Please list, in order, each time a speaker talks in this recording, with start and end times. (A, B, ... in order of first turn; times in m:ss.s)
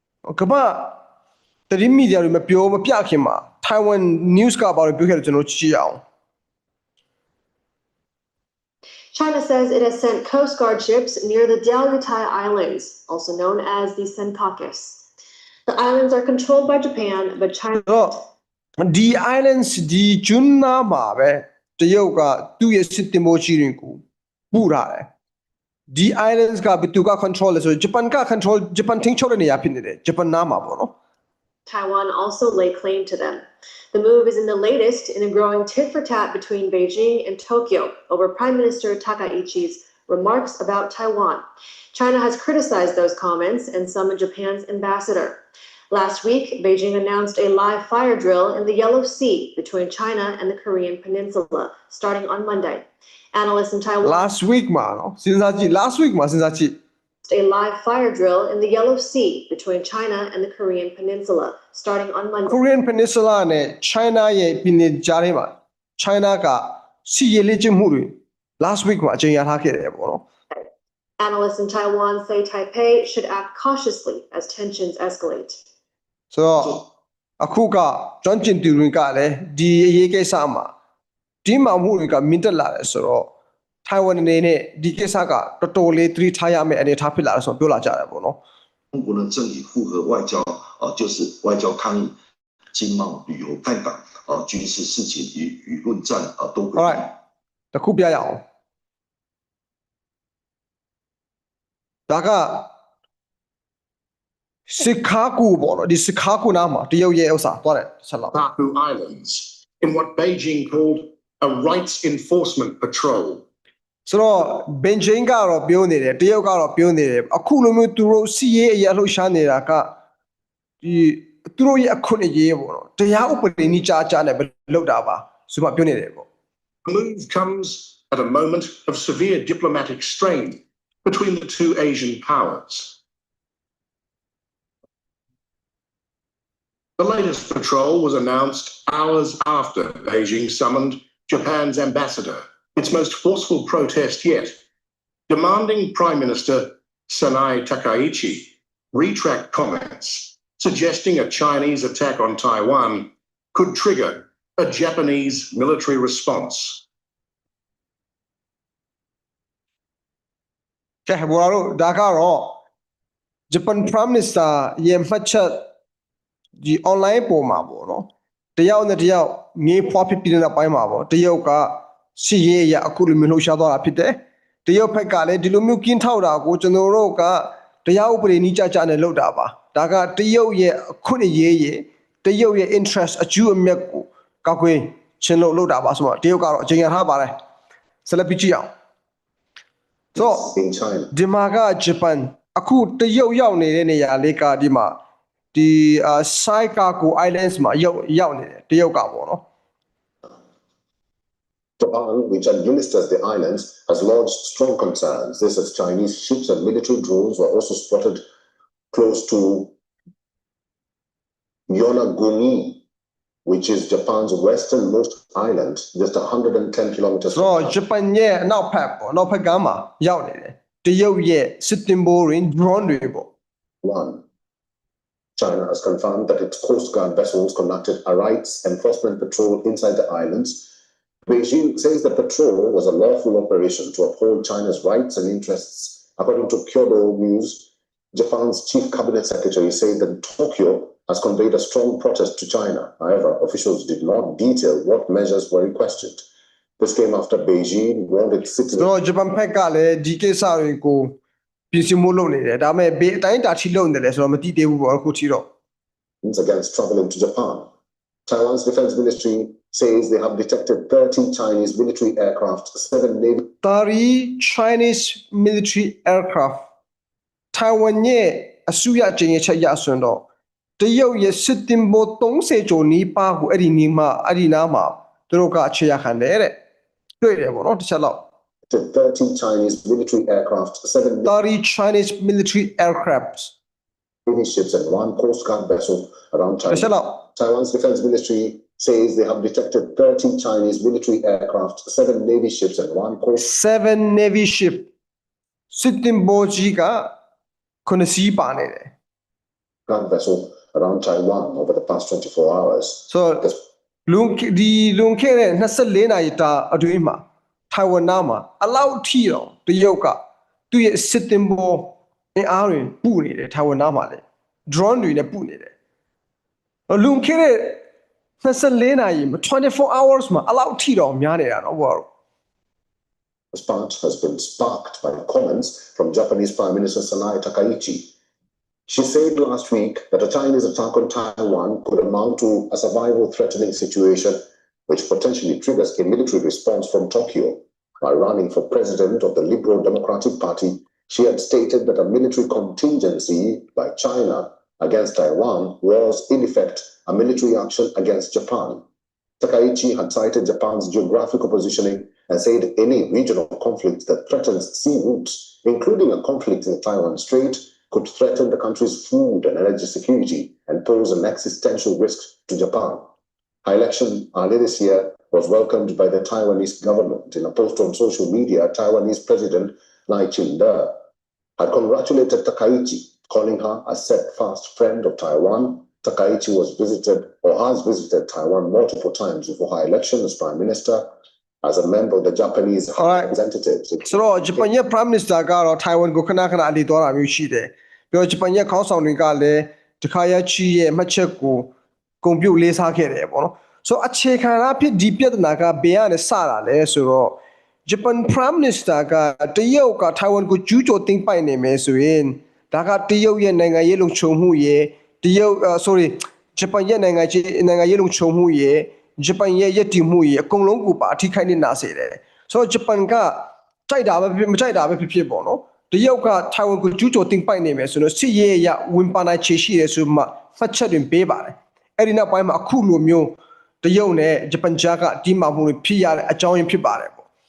0:00.3-0:01.0 A
0:01.7-0:06.0 A
0:09.1-0:15.0 B
0:15.7-0:18.1 B
0:17.9-0:18.1 A
0:18.8-0:25.1 A
0:25.9-0:30.9 A
0:31.7-0:41.4 B
0:41.9-0:54.3 B
0:54.0-0:56.8 A
0:57.3-1:02.6 B
1:02.5-1:10.2 A
1:11.2-1:15.6 B
1:16.3-1:16.8 A
1:17.4-1:20.7 A
1:21.4-1:23.3 A
1:23.8-1:28.4 A
1:28.9-1:32.1 C
1:32.7-1:37.0 C
1:36.8-1:37.0 A
1:37.7-1:38.4 A
1:42.1-1:42.7 A
1:44.7-1:48.3 A
1:48.3-1:53.4 D
1:54.0-1:59.9 A
2:00.8-2:06.3 A
2:06.8-2:13.0 D
2:17.0-2:24.6 D
2:25.3-2:36.8 D
2:41.1-2:42.6 A
2:43.5-2:45.7 A
2:46.6-3:07.3 A
3:08.0-3:08.7 A
3:10.2-3:11.1 E
3:10.2-3:10.5 A
3:11.1-3:15.0 A
3:15.5-3:19.4 A
3:21.8-3:28.2 E
3:28.9-3:29.7 E
3:31.7-3:32.8 E
3:33.4-3:37.8 E
3:37.3-3:43.3 A
3:43.8-3:44.2 E
3:45.4-3:50.7 E
3:51.3-4:06.2 E
4:06.8-4:08.9 E
4:08.8-4:11.2 A
4:11.7-4:15.5 A
4:16.2-4:17.7 E
4:18.2-4:23.5 E
4:23.6-4:26.7 A
4:27.5-4:30.3 A
4:30.8-4:36.6 A
4:37.2-4:38.3 A
4:38.7-4:41.3 E
4:41.2-4:43.5 A
4:44.2-4:53.5 E
4:46.7-4:47.2 A
4:53.4-4:54.9 A
4:55.7-4:57.1 A
4:57.8-4:58.9 A
4:59.9-5:03.6 E
5:03.1-5:03.5 A
5:04.1-5:10.2 A
5:10.7-5:15.7 A
5:16.9-5:17.8 A
5:18.4-5:22.1 A
5:23.5-5:28.1 E
5:28.9-5:48.8 E
5:49.4-6:03.1 E
6:03.6-6:10.9 E
6:11.6-6:24.6 E
6:23.0-6:23.3 A
6:24.0-6:31.7 A
6:32.2-7:07.2 A